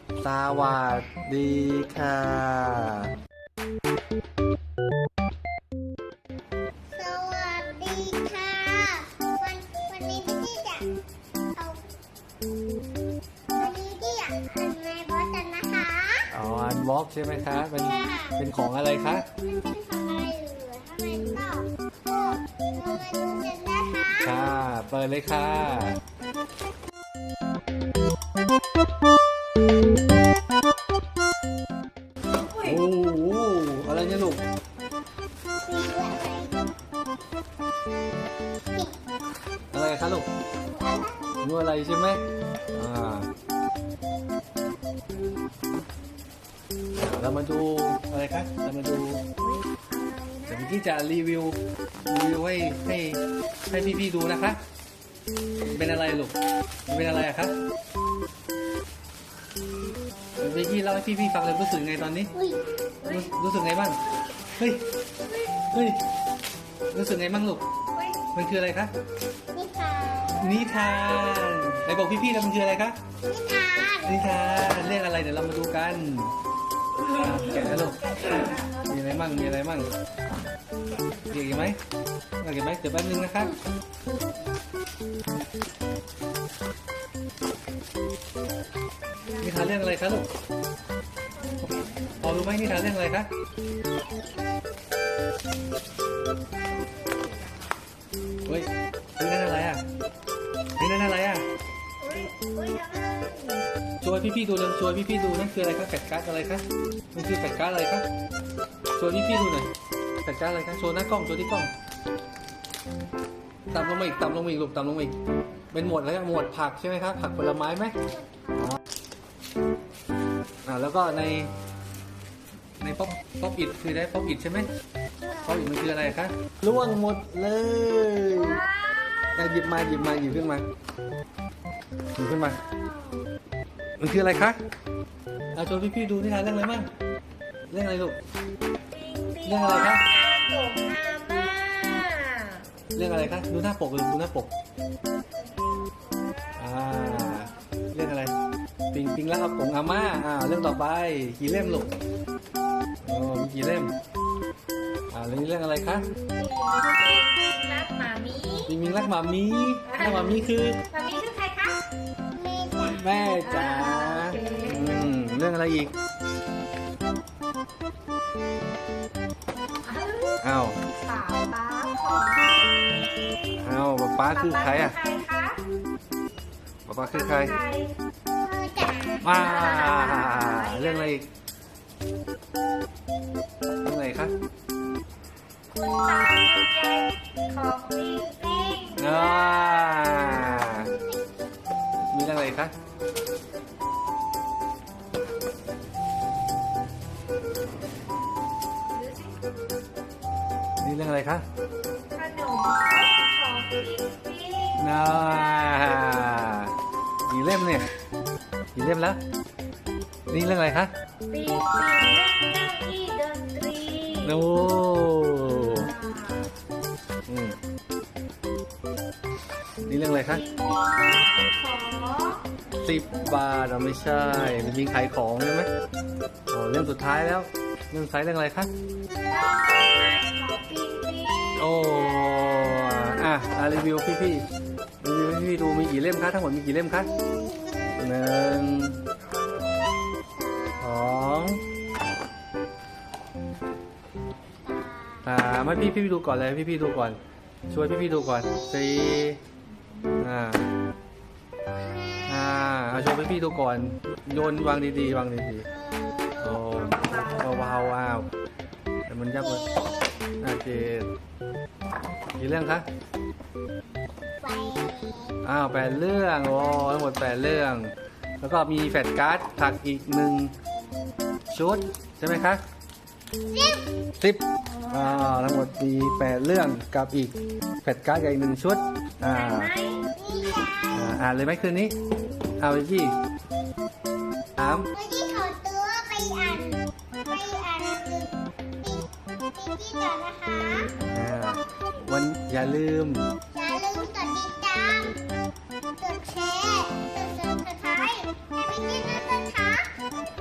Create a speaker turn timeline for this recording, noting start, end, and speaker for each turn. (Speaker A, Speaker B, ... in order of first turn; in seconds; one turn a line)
Speaker A: 0.2-3.1
Speaker B: 6.9-10.9
Speaker B: 11.5-11.8
Speaker B: 13.5-16.3
Speaker A: 16.3-19.2
Speaker B: 17.7-18.4
Speaker B: 19.3-24.6
Speaker A: 24.2-26.0
Speaker C: 32.4-32.7
Speaker A: 32.5-34.5
Speaker B: 35.6-36.7
Speaker B: 38.7-39.0
Speaker A: 39.7-40.3
Speaker B: 40.6-41.4
Speaker A: 41.4-43.3
Speaker A: 46.9-49.2
Speaker C: 49.4-50.8
Speaker A: 50.5-54.6
Speaker A: 55.6-56.3
Speaker A: 56.9-57.5
Speaker A: 60.4-62.3
Speaker B: 62.3-62.6
Speaker C: 63.0-63.3
Speaker A: 63.0-64.0
Speaker A: 64.6-64.8
Speaker C: 65.2-65.5
Speaker A: 65.7-66.0
Speaker A: 66.9-67.6
Speaker C: 67.9-68.3
Speaker A: 68.3-68.9
Speaker B: 69.5-70.6
Speaker A: 70.4-73.0
Speaker B: 73.2-74.8
Speaker A: 74.0-76.3
Speaker A: 77.1-78.3
Speaker C: 77.2-79.5
Speaker A: 78.9-79.9
Speaker C: 80.8-81.4
Speaker A: 81.3-81.8
Speaker A: 82.4-83.6
Speaker C: 89.1-89.8
Speaker A: 89.4-90.3
Speaker C: 91.3-92.7
Speaker A: 92.2-93.3
Speaker B: 94.0-94.4
Speaker C: 96.7-97.8
Speaker A: 98.5-99.8
Speaker A: 100.8-101.5
Speaker C: 102.0-103.7
Speaker A: 104.0-108.1
Speaker A: 109.0-109.7
Speaker A: 110.2-111.7
Speaker A: 113.7-115.2
Speaker A: 115.7-118.0
Speaker B: 118.0-118.8
Speaker A: 120.6-121.5
Speaker A: 122.8-124.7
Speaker B: 125.2-125.7
Speaker A: 125.4-128.6
Speaker C: 128.3-130.1
Speaker A: 129.3-130.6
Speaker A: 132.2-132.6
Speaker C: 132.2-133.2
Speaker B: 132.7-133.1
Speaker A: 134.0-134.6
Speaker A: 135.5-136.9
Speaker A: 137.7-138.2
Speaker C: 138.9-142.7
Speaker A: 139.4-140.1
Speaker A: 142.9-144.5
Speaker C: 145.3-147.6
Speaker A: 146.6-148.3
Speaker A: 148.9-151.9
Speaker A: 153.0-153.9
Speaker A: 155.1-156.1
Speaker C: 156.3-158.8
Speaker A: 158.7-160.8
Speaker C: 159.8-161.9
Speaker B: 162.3-163.4
Speaker A: 162.9-165.9
Speaker C: 163.4-165.1
Speaker C: 169.8-173.6
Speaker A: 170.4-170.8
Speaker A: 173.6-175.0
Speaker C: 174.2-175.6
Speaker A: 176.8-177.6
Speaker C: 177.1-177.9
Speaker B: 178.3-179.3
Speaker A: 179.2-181.3
Speaker C: 179.3-181.2
Speaker A: 183.8-184.3
Speaker C: 185.7-190.4
Speaker A: 188.9-190.9
Speaker B: 190.3-191.2
Speaker A: 192.1-192.7
Speaker C: 198.9-199.4
Speaker A: 200.8-201.4
Speaker C: 202.1-206.2
Speaker A: 204.7-206.7
Speaker A: 207.2-207.9
Speaker A: 208.7-209.2
Speaker A: 210.3-210.9
Speaker C: 211.3-214.5
Speaker A: 214.2-215.9
Speaker C: 215.3-216.5
Speaker A: 217.3-217.6
Speaker A: 219.8-220.4
Speaker C: 220.1-222.5
Speaker A: 222.7-225.7
Speaker A: 226.5-228.7
Speaker C: 229.3-233.8
Speaker A: 231.6-234.4
Speaker A: 235.0-237.1
Speaker B: 237.0-238.2
Speaker A: 238.0-239.0
Speaker B: 240.3-241.2
Speaker A: 240.8-241.6
Speaker B: 244.6-245.5
Speaker A: 245.2-249.4
Speaker B: 248.1-249.3
Speaker A: 250.2-250.7
Speaker B: 251.7-252.9
Speaker A: 252.3-255.7
Speaker B: 254.5-256.6
Speaker A: 256.4-258.3
Speaker C: 256.6-258.0
Speaker A: 259.1-259.6
Speaker B: 259.4-260.1
Speaker A: 260.4-261.1
Speaker A: 262.4-262.9
Speaker B: 264.4-265.4
Speaker A: 265.4-270.5
Speaker A: 271.5-272.6
Speaker B: 273.5-273.9
Speaker A: 274.2-279.7
Speaker C: 274.6-275.4
Speaker C: 279.2-280.1
Speaker B: 280.1-281.3
Speaker A: 280.9-281.9
Speaker A: 282.6-283.2
Speaker A: 284.6-284.9
Speaker B: 284.9-290.9
Speaker A: 291.1-293.3
Speaker B: 293.5-295.2
Speaker B: 296.0-300.0